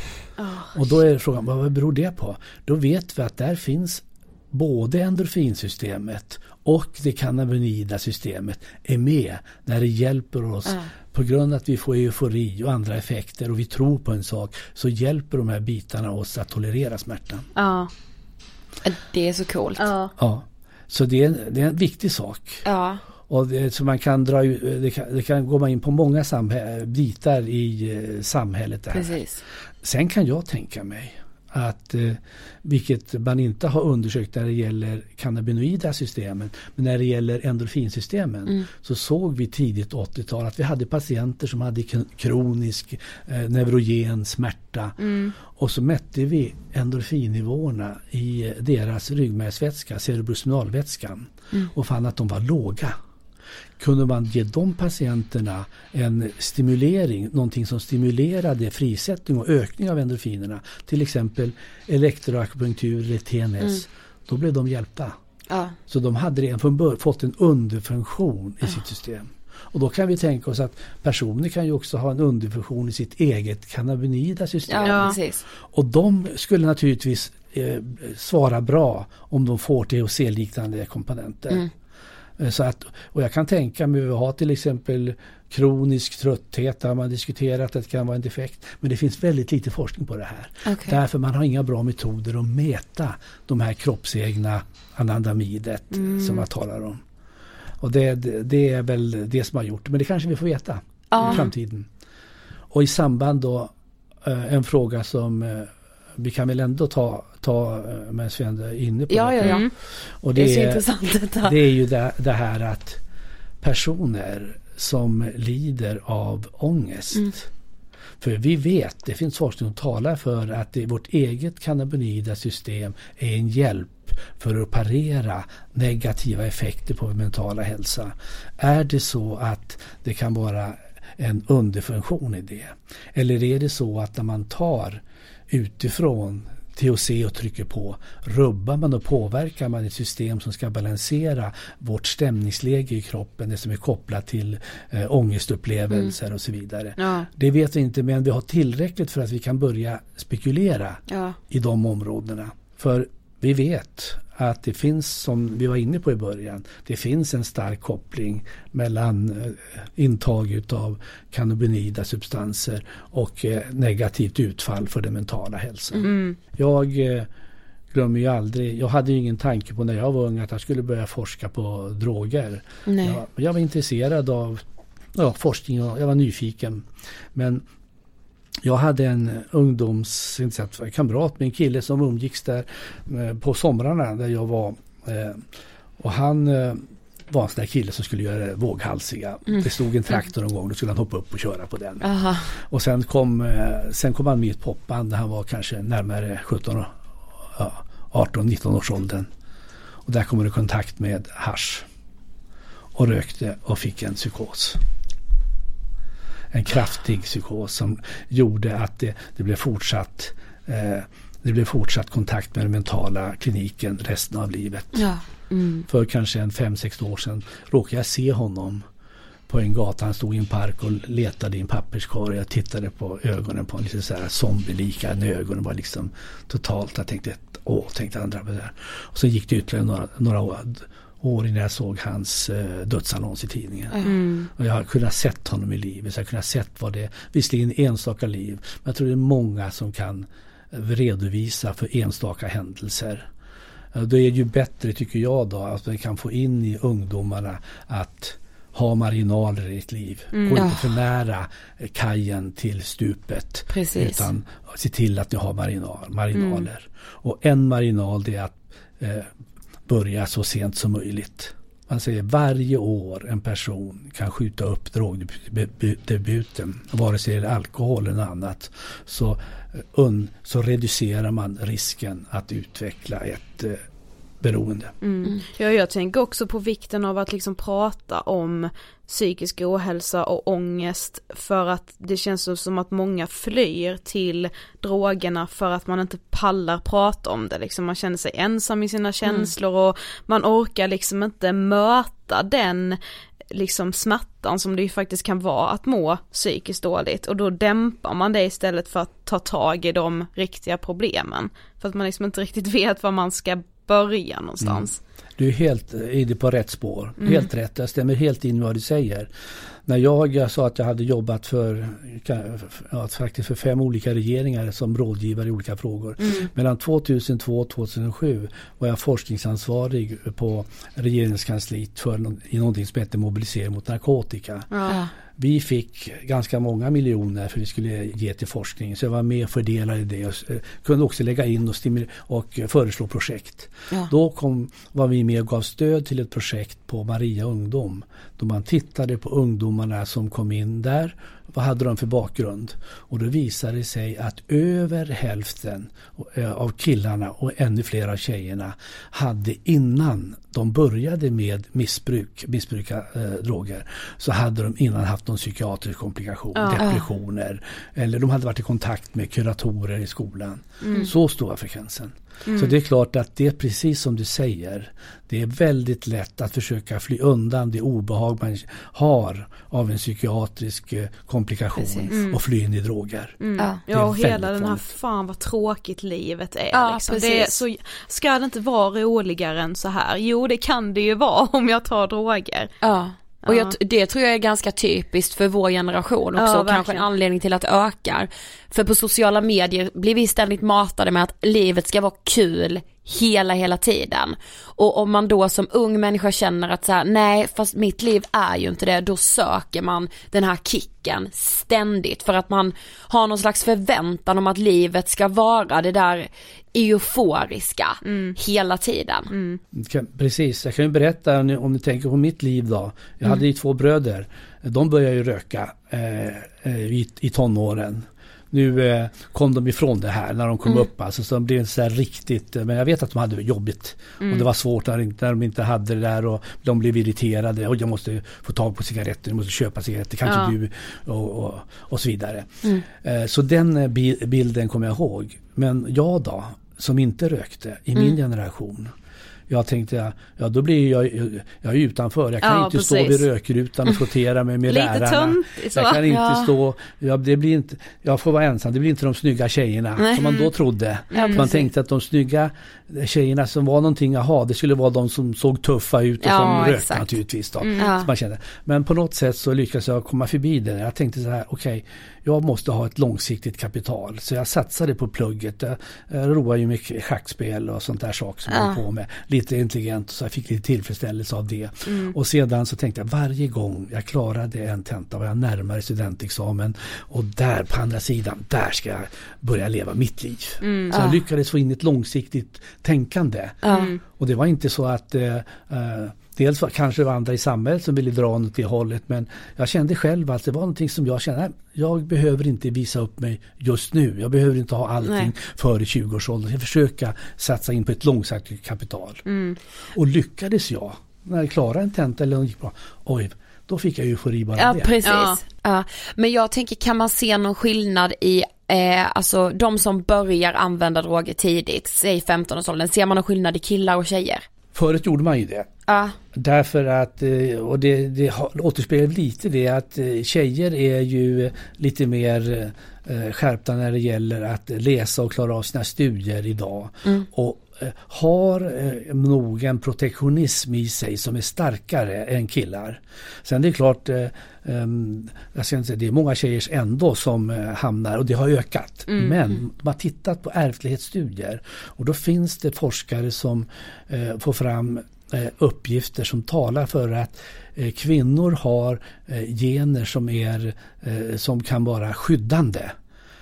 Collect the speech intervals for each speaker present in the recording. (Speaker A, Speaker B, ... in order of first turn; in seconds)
Speaker A: 0.4-0.8, 17.6-17.9, 19.8-20.1, 45.0-45.3, 74.8-75.2, 95.9-96.5, 101.2-101.4, 109.4-109.7, 147.0-147.3, 166.0-166.4, 234.0-234.5, 250.3-250.6, 256.4-256.7, 275.0-293.0, 293.5-305.0, 307.2-307.5, 324.7-325.0, 356.6-356.9, 360.8-361.1, 362.5-362.7, 372.1-372.4, 373.4-382.7, 383.4-383.8, 386.3-387.1, 408.1-408.4, 409.3-409.6, 424.2-424.5, 430.3-430.5, 442.4-443.3, 444.7-446.0, 451.1-451.5, 457.6-457.9, 471.9-472.1, 480.6-481.0, 483.7-484.0, 499.3-499.6, 505.0-505.4, 539.1-539.5
Speaker B: 0.8-17.5, 20.2-22.6, 23.3-29.2, 29.8-53.0, 53.8-65.2, 65.9-75.1, 75.7-81.6, 82.4-97.0, 97.8-101.9, 102.7-103.7, 104.2-110.9, 111.4-113.0, 113.6-117.5, 118.2-167.3, 167.9-174.6, 175.2-177.7, 178.6-185.4, 186.0-196.9, 197.6-199.3, 200.1-201.9, 202.9-204.8, 206.5-215.1, 215.9-218.8, 219.5-233.9, 234.6-243.3, 243.9-259.3, 259.9-273.8, 274.4-274.9, 304.6-309.3, 309.9-324.7, 325.4-374.8, 409.7-438.9, 439.5-499.2, 499.9-504.9, 514.7-515.7, 516.3-553.0
Speaker C: 18.8-19.9, 22.6-23.0, 28.9-29.4, 65.5-65.8, 74.7-75.4, 90.7-91.0, 101.1-101.5, 109.1-109.7, 110.4-111.6, 172.9-173.2, 192.0-192.5, 214.9-215.2, 233.9-234.2, 250.5-250.9, 253.7-254.3, 289.2-289.5, 356.8-357.0, 371.8-372.1, 373.6-373.8, 376.7-377.6, 382.8-409.3, 446.1-446.5, 450.0-450.5, 451.1-451.7, 456.2-457.2, 457.8-458.1, 468.5-468.8, 480.9-481.2, 483.6-483.9, 504.6-514.5, 515.9-516.2